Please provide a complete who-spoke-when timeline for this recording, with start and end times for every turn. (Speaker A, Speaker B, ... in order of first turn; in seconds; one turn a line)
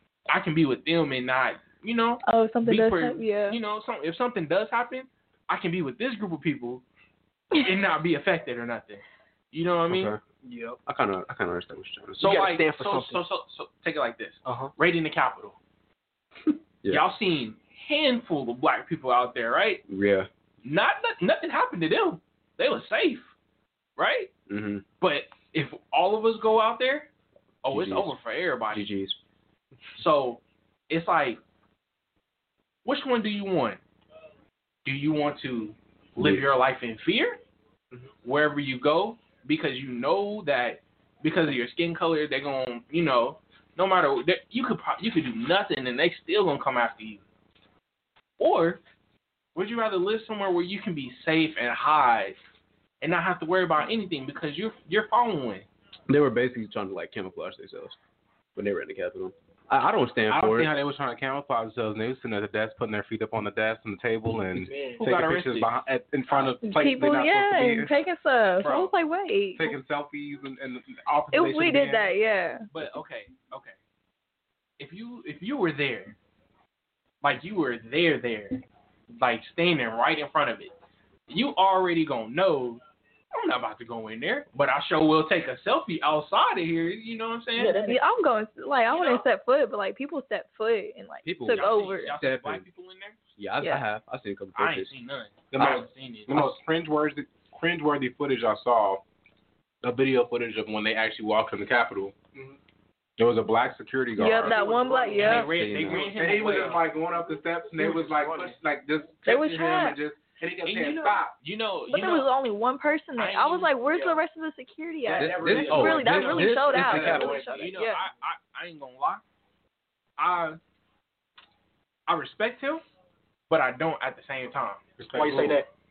Speaker A: 0.3-6.8
Speaker B: 2.2-3.6
Speaker A: 7.5-10.1
Speaker C: 9.9-10.2
Speaker D: 10.4-10.8
Speaker C: 10.8-12.5
Speaker A: 12.2-15.6
Speaker D: 12.2-13.2
Speaker D: 14.4-14.7
Speaker C: 16.5-17.0
Speaker A: 16.9-19.8
Speaker C: 19.9-20.3
Speaker A: 20.6-23.3
Speaker A: 24.0-24.3
Speaker C: 24.5-24.8
Speaker A: 25.0-27.1
Speaker A: 27.6-28.9
Speaker C: 27.7-28.2
Speaker C: 28.7-29.2
Speaker A: 29.9-31.4
Speaker A: 32.8-33.8
Speaker A: 34.8-37.4
Speaker C: 36.1-36.5
Speaker A: 38.2-47.2
Speaker A: 48.4-48.8
Speaker A: 49.5-52.4
Speaker A: 53.0-55.7
Speaker C: 56.1-58.0
Speaker C: 58.5-60.7
Speaker E: 60.3-67.9
Speaker D: 64.5-65.0
Speaker A: 65.0-65.7
Speaker B: 66.6-69.8
Speaker E: 68.6-68.9
Speaker E: 69.5-72.1
Speaker B: 71.3-72.6
Speaker A: 72.7-73.8
Speaker A: 74.8-76.1
Speaker A: 77.2-78.6
Speaker A: 79.2-80.7
Speaker A: 81.3-82.8
Speaker A: 83.3-87.9
Speaker D: 87.6-88.0
Speaker B: 87.6-92.2
Speaker A: 88.9-89.2
Speaker C: 91.2-92.7
Speaker A: 91.5-93.2
Speaker C: 93.4-94.9
Speaker A: 94.5-96.5
Speaker E: 95.5-99.0
Speaker C: 95.6-95.8
Speaker E: 99.8-102.1
Speaker E: 103.2-104.6
Speaker B: 104.2-105.5
Speaker D: 104.4-105.4
Speaker C: 105.2-106.8
Speaker A: 105.2-106.8
Speaker E: 105.8-111.3
Speaker D: 107.8-108.6
Speaker B: 109.2-110.0
Speaker A: 110.6-112.3
Speaker B: 111.9-118.0
Speaker A: 113.2-113.7
Speaker D: 113.8-114.2
Speaker C: 115.1-117.4
Speaker A: 115.1-119.2
Speaker A: 120.2-120.6
Speaker A: 122.1-122.8
Speaker A: 123.5-125.5
Speaker E: 125.0-125.6
Speaker D: 125.1-125.7